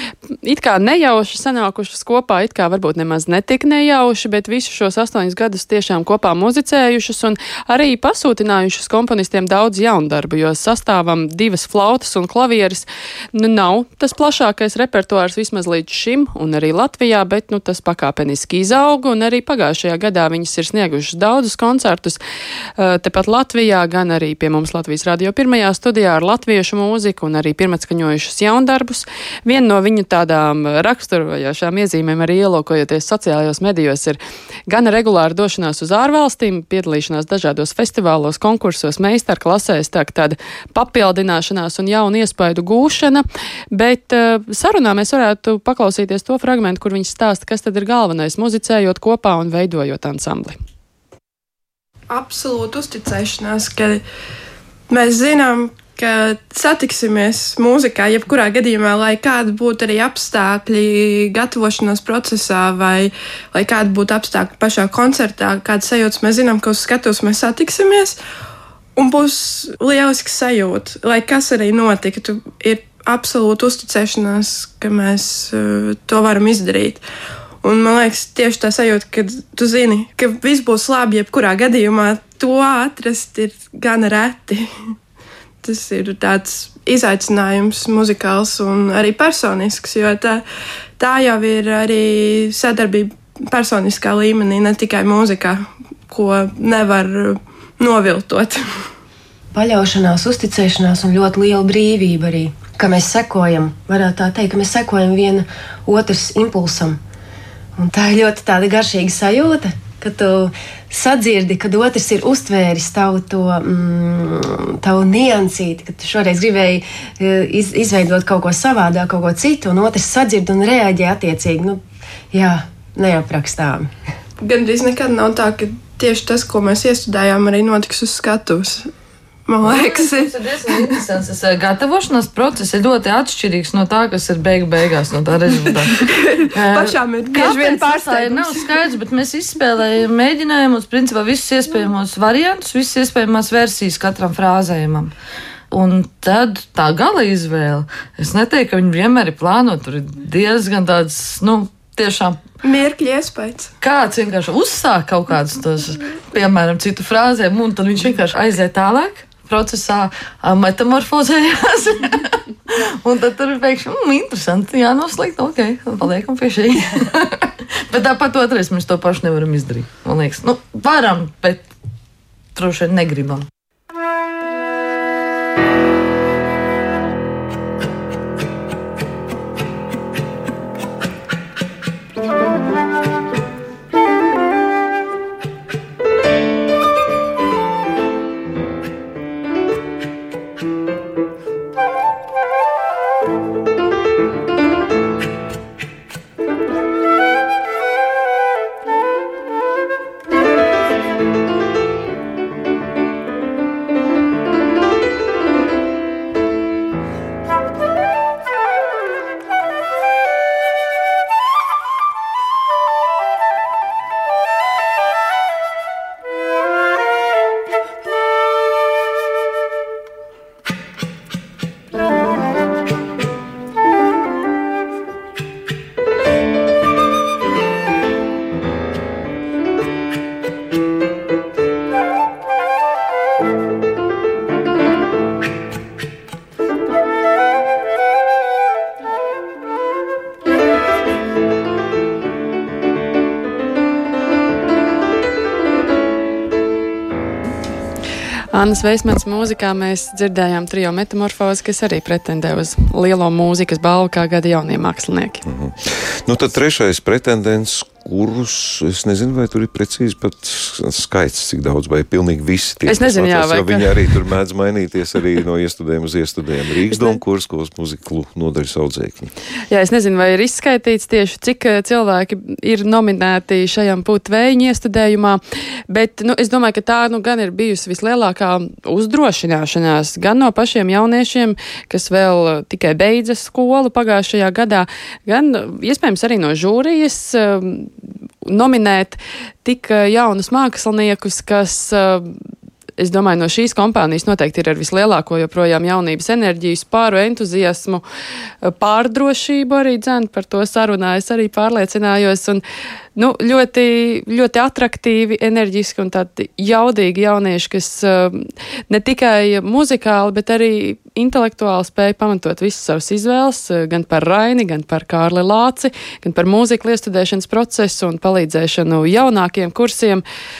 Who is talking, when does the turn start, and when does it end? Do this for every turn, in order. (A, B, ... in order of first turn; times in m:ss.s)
0:00.4-0:22.2 A
0:22.8-0:50.6 A
0:52.1-0:54.0 B
0:54.9-1:08.2 B
1:09.0-1:17.0 B
1:17.6-1:24.6 B
1:25.6-1:30.4 B
1:31.0-1:38.6 B
1:39.5-1:47.0 C
1:47.8-2:01.8 C
2:02.3-2:03.9 C
2:04.4-2:08.9 B
2:09.5-2:11.0 B
2:09.6-2:25.1 D
2:15.6-2:18.8 B
2:25.7-2:32.4 D
2:32.6-2:33.7 B
2:33.8-2:51.7 D
2:52.5-2:53.5 D
4:08.5-4:15.4 A
4:15.4-4:29.3 E
4:22.8-4:24.0 A
4:26.9-4:27.2 A
4:29.7-4:52.3 A
4:53.0-4:58.0 A
4:58.6-5:02.6 A
5:03.2-5:20.2 A